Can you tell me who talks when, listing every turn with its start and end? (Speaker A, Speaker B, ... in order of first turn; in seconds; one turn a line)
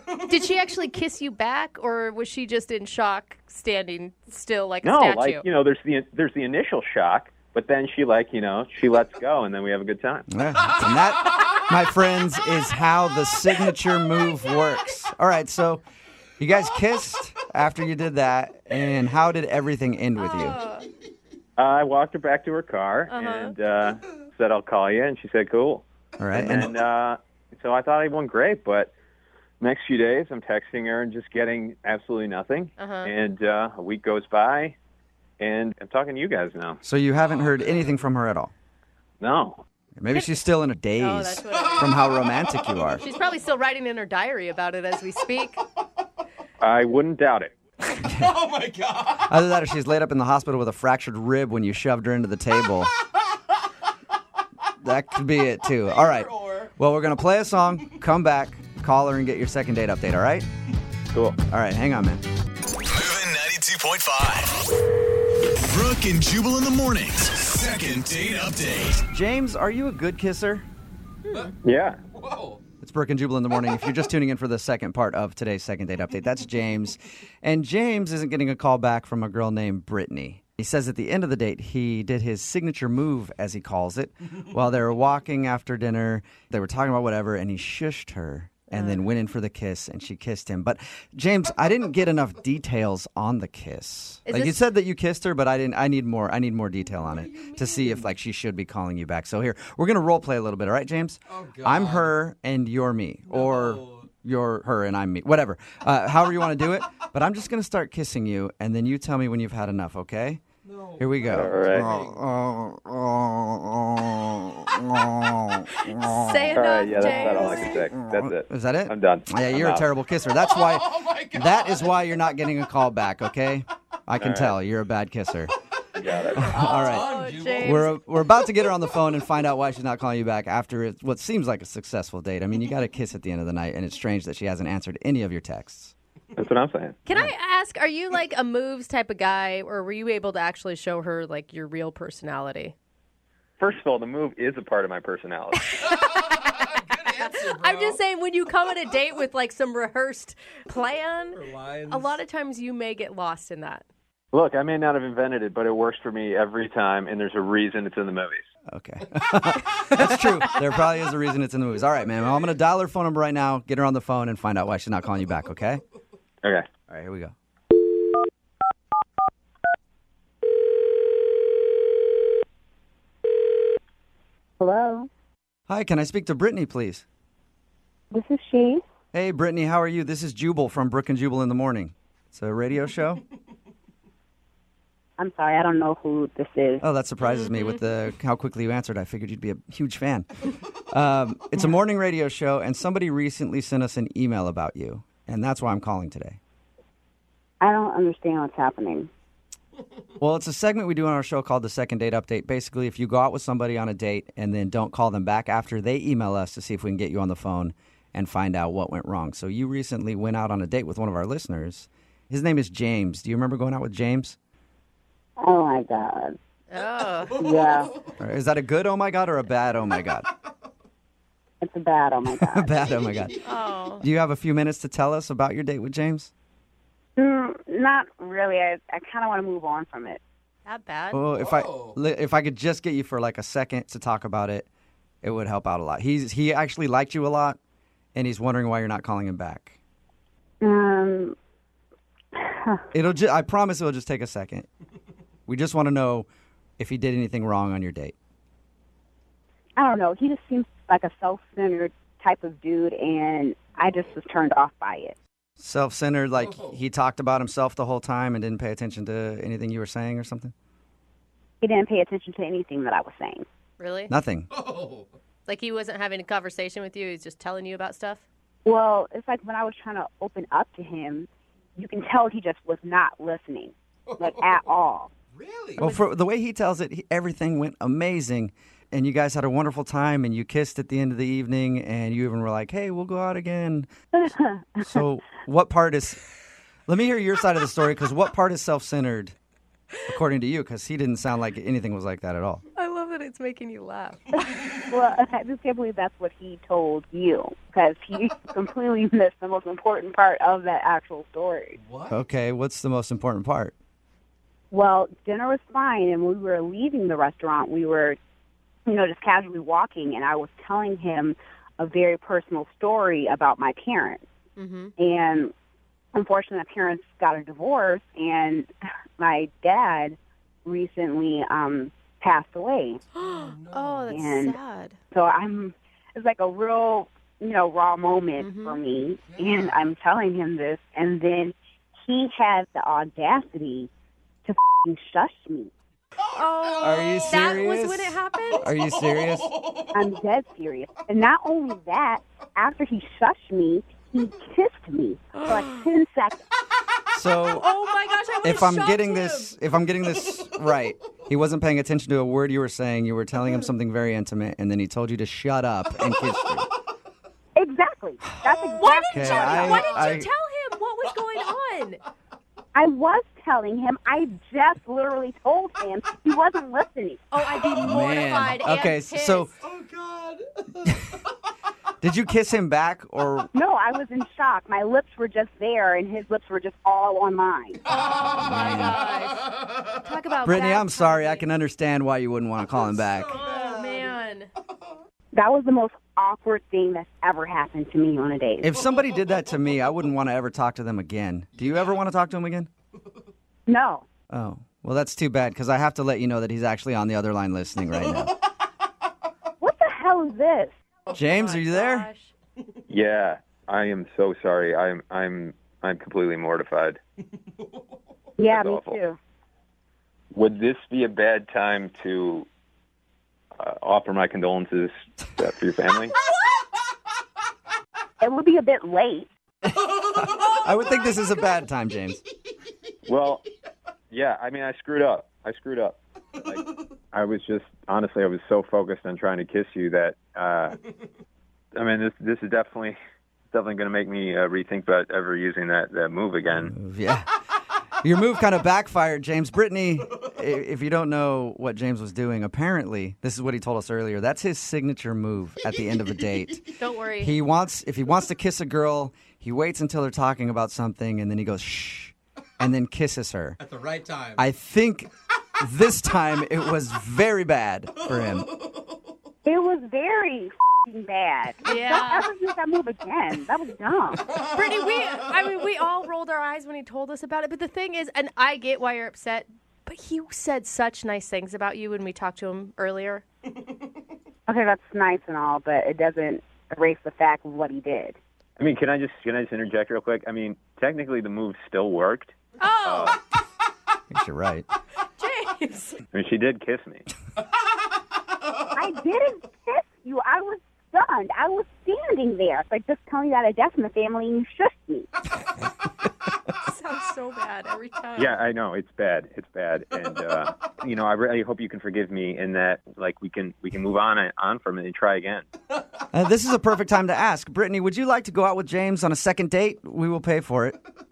Speaker A: 0.1-5.4
Speaker B: 4.8-10.3
Speaker C: 10.3-15.8
Speaker C: 16.4-20.6
Speaker A: 20.2-20.9
Speaker B: 21.6-28.9
Speaker A: 23.1-23.5
Speaker C: 26.2-26.7
Speaker B: 29.6-34.7
Speaker A: 32.8-33.1
Speaker B: 35.4-36.8
Speaker C: 36.8-38.5
Speaker D: 37.3-37.8
Speaker B: 39.2-39.6
Speaker C: 40.0-43.0
Speaker A: 41.0-42.1
Speaker A: 43.0-45.6
Speaker B: 46.6-47.5
Speaker C: 48.0-48.4
Speaker D: 48.1-49.2
Speaker C: 49.3-52.9
Speaker C: 54.8-60.5
Speaker D: 55.9-56.7
Speaker B: 61.1-61.4
Speaker C: 61.5-62.2
Speaker D: 62.9-63.6
Speaker E: 62.9-64.5
Speaker D: 64.3-64.6
Speaker E: 65.7-68.8
Speaker D: 67.2-69.0
Speaker C: 69.1-70.7
Speaker B: 71.6-72.0
Speaker D: 72.1-72.6
Speaker C: 72.8-110.4
Speaker A: 88.7-89.0
Speaker A: 94.2-94.6
Speaker D: 97.0-97.9
Speaker D: 101.3-102.1
Speaker D: 103.3-104.0
Speaker D: 110.6-112.2
Speaker C: 111.0-116.5
Speaker B: 111.3-111.8
Speaker A: 115.8-117.9
Speaker B: 116.5-119.9
Speaker C: 118.0-125.5
Speaker D: 120.4-121.8
Speaker B: 124.2-124.5
Speaker B: 126.0-126.5
Speaker C: 126.3-135.9
Speaker D: 126.4-127.9
Speaker A: 126.5-127.9
Speaker B: 136.3-137.0
Speaker A: 137.0-142.7
Speaker B: 143.6-145.7
Speaker A: 145.7-153.8
Speaker D: 145.8-148.0
Speaker D: 151.3-152.2
Speaker B: 154.3-158.4
Speaker C: 158.7-165.8
Speaker C: 166.9-167.3
Speaker F: 174.6-175.1
Speaker C: 175.7-177.0
Speaker F: 178.1-178.8
Speaker C: 179.1-183.2
Speaker F: 185.2-186.8
Speaker C: 186.8-196.4
Speaker F: 197.6-199.1
Speaker C: 200.2-214.3
Speaker F: 215.4-216.4
Speaker A: 216.7-217.4
Speaker F: 217.4-218.0
Speaker D: 217.4-217.7
Speaker C: 218.2-220.3
Speaker F: 221.6-222.9
Speaker C: 222.4-223.4
Speaker A: 223.4-224.0
Speaker C: 224.0-226.3
Speaker F: 227.2-230.2
Speaker A: 230.7-231.2
Speaker C: 231.1-234.7
Speaker D: 231.3-231.9
Speaker C: 235.2-237.6
Speaker C: 238.1-239.8
Speaker F: 240.6-241.3
Speaker F: 242.3-242.8
Speaker C: 242.9-244.7
Speaker C: 245.5-246.3
Speaker C: 246.8-248.1
Speaker F: 249.8-255.2
Speaker C: 255.6-260.5
Speaker D: 256.4-256.7
Speaker F: 261.6-263.4
Speaker A: 263.8-264.1
Speaker C: 264.1-264.5
Speaker D: 264.5-265.1
Speaker A: 265.5-268.2
Speaker F: 268.6-275.1
Speaker D: 274.1-274.4
Speaker D: 275.3-275.8
Speaker C: 275.8-283.9
Speaker F: 284.1-284.9
Speaker C: 284.8-286.2
Speaker C: 286.9-289.3
Speaker C: 290.1-292.6
Speaker A: 292.7-294.3
Speaker F: 294.4-301.8
Speaker D: 301.8-302.1
Speaker C: 302.1-303.7
Speaker F: 304.7-308.2
Speaker F: 308.9-314.2
Speaker A: 314.6-314.9
Speaker F: 315.0-315.5
Speaker F: 316.1-323.0
Speaker A: 323.2-324.9
Speaker D: 323.2-324.1
Speaker F: 324.1-324.6
Speaker F: 325.1-333.9
Speaker A: 328.4-328.8
Speaker D: 329.3-329.8
Speaker F: 334.4-335.7
Speaker A: 336.3-338.7
Speaker D: 336.3-337.3
Speaker C: 336.8-339.5
Speaker D: 338.9-339.9
Speaker F: 339.9-346.4
Speaker C: 347.1-347.6
Speaker A: 347.5-349.5
Speaker C: 348.4-356.7
Speaker F: 357.6-359.8
Speaker A: 358.4-362.0
Speaker C: 359.1-360.3
Speaker D: 359.8-360.2
Speaker F: 362.7-367.2
Speaker A: 367.3-369.5
Speaker C: 367.8-369.5
Speaker D: 369.6-370.9
Speaker C: 372.0-373.5
Speaker F: 373.5-377.8
Speaker A: 377.9-381.5
Speaker D: 378.2-378.5
Speaker C: 378.4-379.0
Speaker C: 380.4-383.4
Speaker D: 383.0-384.1
Speaker A: 383.3-384.5
Speaker F: 385.3-388.7
Speaker C: 388.6-392.7
Speaker F: 393.6-394.1
Speaker C: 394.3-398.4
Speaker F: 399.6-400.7
Speaker A: 401.1-402.3
Speaker C: 401.1-402.1
Speaker B: 402.9-407.0
Speaker F: 408.4-409.2
Speaker B: 408.5-409.0
Speaker B: 410.3-412.5
Speaker B: 413.6-416.1
Speaker F: 418.2-419.3
Speaker C: 420.2-422.2
Speaker B: 423.1-423.4
Speaker B: 424.1-430.8
Speaker B: 431.7-432.9
Speaker B: 433.5-436.7
Speaker C: 436.6-437.3
Speaker C: 438.0-453.6
Speaker A: 446.8-447.4
Speaker D: 453.6-454.4
Speaker C: 454.4-458.6
Speaker F: 459.4-464.3
Speaker A: 461.6-462.3
Speaker A: 464.4-473.2
Speaker F: 474.5-478.2
Speaker B: 478.6-483.2
Speaker A: 482.6-483.2
Speaker C: 484.1-484.6
Speaker A: 485.2-486.0
Speaker B: 486.1-487.1
Speaker F: 488.7-495.1
Speaker A: 496.6-498.4
Speaker B: 498.1-505.4
Speaker C: 506.1-510.8